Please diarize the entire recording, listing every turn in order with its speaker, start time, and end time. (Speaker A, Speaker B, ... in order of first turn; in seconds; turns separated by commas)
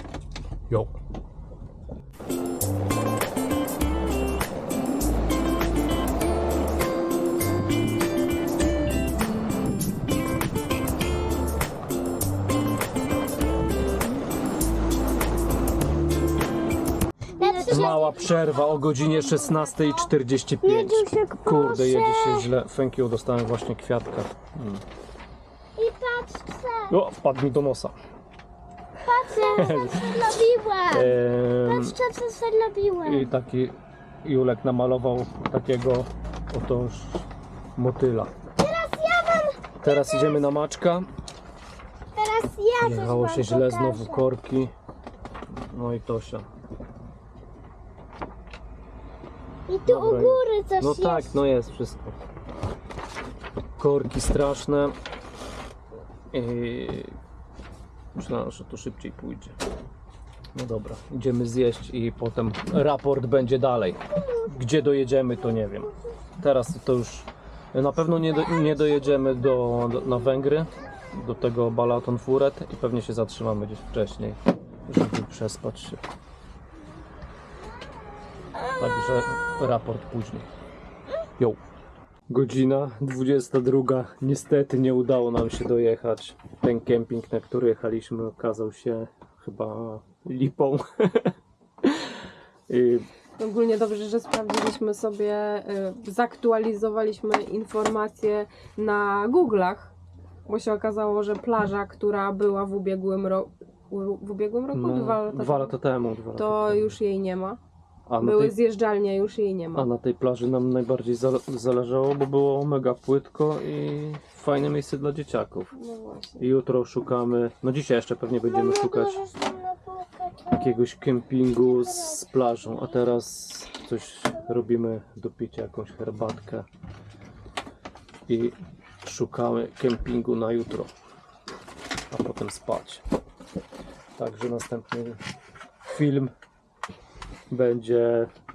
Speaker A: 0.7-0.9, Speaker B: 17.4-18.7, Speaker C: 17.4-18.0, Speaker A: 17.7-24.8, Speaker B: 20.6-22.5, Speaker B: 25.8-27.0, Speaker A: 26.9-27.9, Speaker B: 29.0-33.3, Speaker A: 29.3-30.3, Speaker A: 30.9-32.0, Speaker A: 33.0-38.3, Speaker B: 38.6-40.5, Speaker A: 39.8-41.1, Speaker B: 42.1-44.3, Speaker A: 42.8-44.7, Speaker A: 45.7-46.5, Speaker B: 49.7-51.3, Speaker A: 49.9-52.2, Speaker A: 53.8-55.0, Speaker A: 56.3-57.2, Speaker A: 58.1-59.6, Speaker A: 60.5-76.0, Speaker A: 78.8-80.5, Speaker A: 82.3-91.3, Speaker A: 91.8-92.2, Speaker A: 92.7-93.0, Speaker C: 93.4-99.9, Speaker C: 100.5-105.8, Speaker A: 104.7-107.0, Speaker C: 106.3-107.6, Speaker A: 108.1-108.6, Speaker C: 108.2-109.9, Speaker A: 109.8-115.7, Speaker C: 115.7-116.4, Speaker A: 116.4-119.2, Speaker B: 118.5-120.6, Speaker A: 120.5-126.7, Speaker A: 128.3-130.9, Speaker A: 132.1-133.0, Speaker A: 134.2-135.2, Speaker A: 135.8-136.3, Speaker A: 137.5-138.3